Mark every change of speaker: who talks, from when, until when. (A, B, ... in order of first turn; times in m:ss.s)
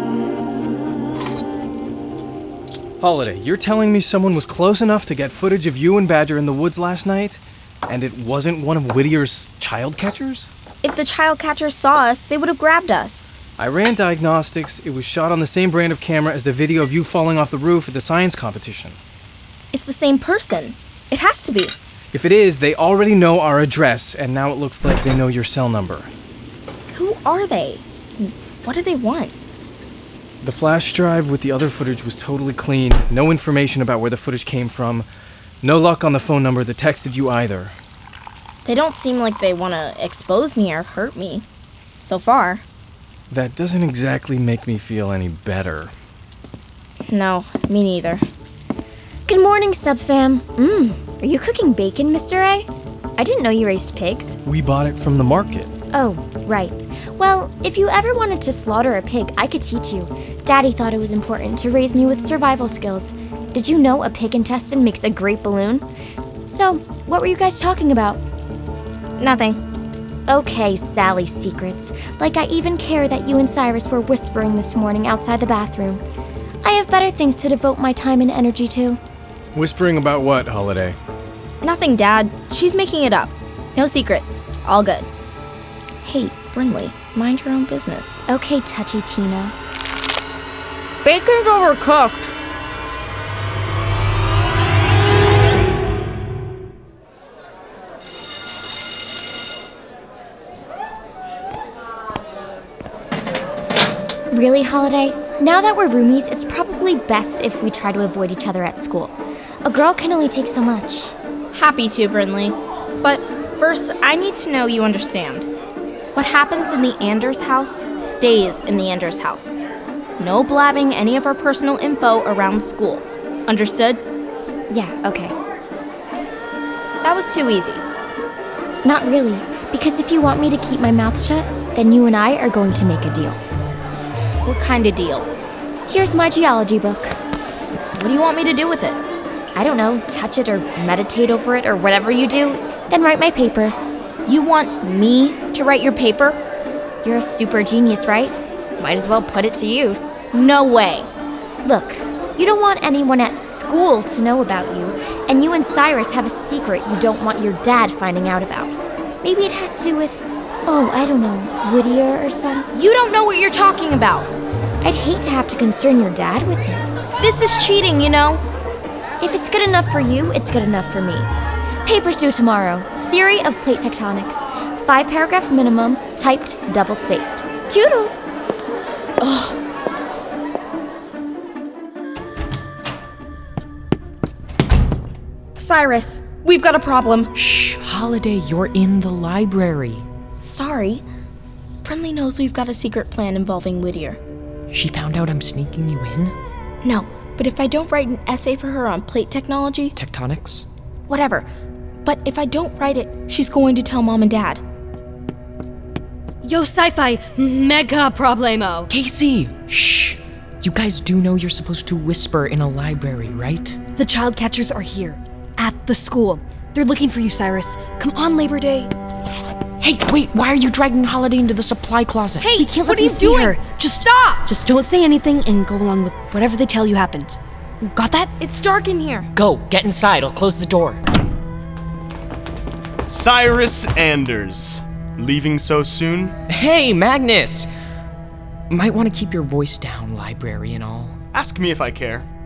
0:03.0-0:10.5 A
0:10.8-0:13.3 B
0:13.6-0:19.0 A
0:19.7-0:21.8 B
0:22.1-0:26.1 A
0:26.9-0:29.3 B
0:30.4-0:35.1 A
0:35.6-0:37.7 A
0:38.6-0:41.4 B
0:42.0-0:42.6 B
0:43.3-0:45.9 A
0:47.0-0:48.2 B
0:49.2-0:54.4 C
0:54.4-0:55.7 A
0:55.9-1:05.8 C
1:06.4-1:08.2 C
1:09.2-1:09.6 B
1:10.3-1:16.0 C
1:16.6-1:19.0 C
1:19.5-1:21.0 A
1:21.6-1:25.1 B
1:26.0-1:28.2 B
1:28.3-1:29.5 C
1:31.0-1:32.1 D
1:44.3-1:51.1 C
1:51.5-1:55.5 B
1:56.1-1:59.6 B
2:00.2-2:04.0 B
2:04.7-2:05.3 C
2:07.0-2:07.8 B
2:08.8-2:13.4 C
2:14.4-2:15.3 B
2:15.9-2:17.2 C
2:18.0-2:19.0 B
2:19.5-2:23.8 C
2:24.2-2:26.4 B
2:27.0-2:30.2 C
2:30.3-2:31.1 B
2:31.6-2:42.7 C
2:42.7-2:44.3 B
2:44.8-2:47.2 C
2:47.2-2:48.4 B
2:49.2-2:51.3 C
2:51.8-2:58.3 C
2:59.2-2:59.6 B
3:05.6-3:07.3 B
3:07.3-3:10.0 D
3:10.4-3:11.0 B
3:11.8-3:14.2 B
3:14.7-3:16.3 D
3:16.8-3:19.9 B
3:19.9-3:20.6 D
3:21.1-3:21.5 B
3:22.0-3:24.6 B
3:26.4-3:28.9 E
3:28.9-3:33.8 D
3:34.0-3:38.9 E
3:39.8-3:42.5 D
3:42.4-3:43.6 B
3:42.5-3:48.3 E
3:48.4-3:49.3 B
3:49.3-3:51.0 D
3:53.1-3:56.3 F
3:56.5-3:57.7 D
3:58.7-4:01.2 D
4:01.3-4:02.3 F